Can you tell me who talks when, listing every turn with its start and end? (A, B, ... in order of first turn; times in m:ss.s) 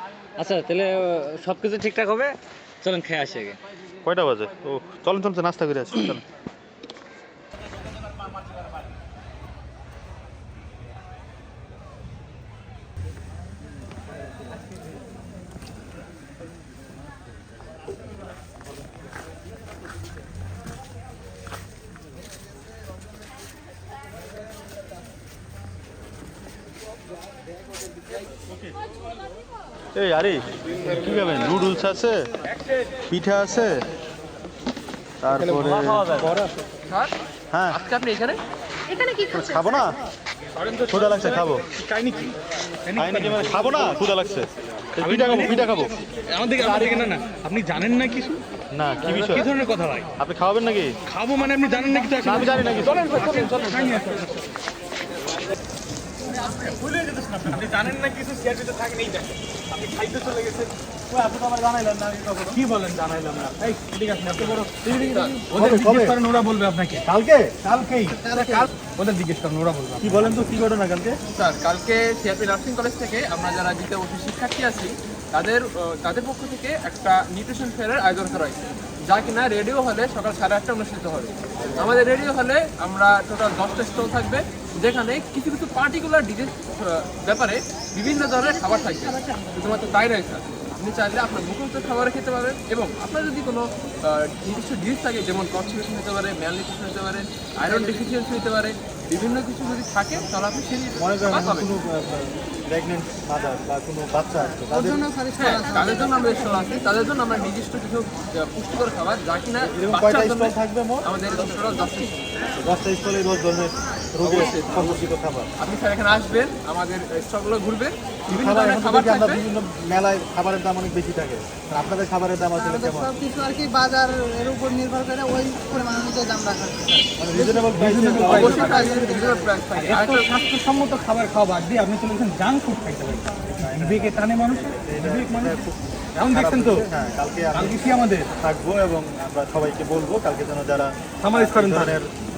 0:00.5-0:03.6 A
0:04.0-0:06.2 B
0:30.0-0:32.2 B
0:33.1-0:33.8 B
0:35.2-0:36.3 B
0:35.4-0:36.5 C
0:36.9-0:37.1 D
0:37.5-0:37.8 B
0:37.7-0:38.4 D
0:38.9-0:39.3 E
0:39.3-0:40.0 B
0:40.6-0:42.3 C
0:40.9-0:41.6 B
0:42.9-0:43.8 C
0:43.0-0:46.1 B
0:45.0-0:48.4 C
0:46.6-0:47.1 D
0:48.7-0:49.5 B
0:49.1-0:50.1 C
0:50.2-0:51.0 B
0:51.1-0:54.4 C
0:52.2-0:53.1 B
0:52.9-0:54.0 D
0:56.7-0:57.6 B
0:57.4-1:00.7 C
1:01.1-1:02.6 B
1:02.5-1:05.0 C
1:04.4-1:06.2 B
1:05.0-1:05.4 D
1:05.5-1:07.0 C
1:07.0-1:07.6 B
1:07.6-1:10.4 C
1:08.1-1:08.6 E
1:10.0-1:11.2 B
1:11.3-1:41.7 D
1:41.0-1:45.1 B
1:44.6-1:46.9 E
1:45.4-1:52.2 D
1:49.6-1:51.1 B
1:52.6-1:55.5 B
1:54.2-1:55.1 D
1:55.6-1:59.4 D
1:58.3-2:03.1 B
2:02.6-2:09.5 E
2:07.2-2:09.0 B
2:07.7-2:09.0 C
2:08.2-2:10.3 D
2:09.8-2:15.6 C
2:13.6-2:17.8 B
2:16.2-2:16.9 C
2:17.5-2:18.3 C
2:18.4-2:22.1 B
2:21.2-2:22.0 C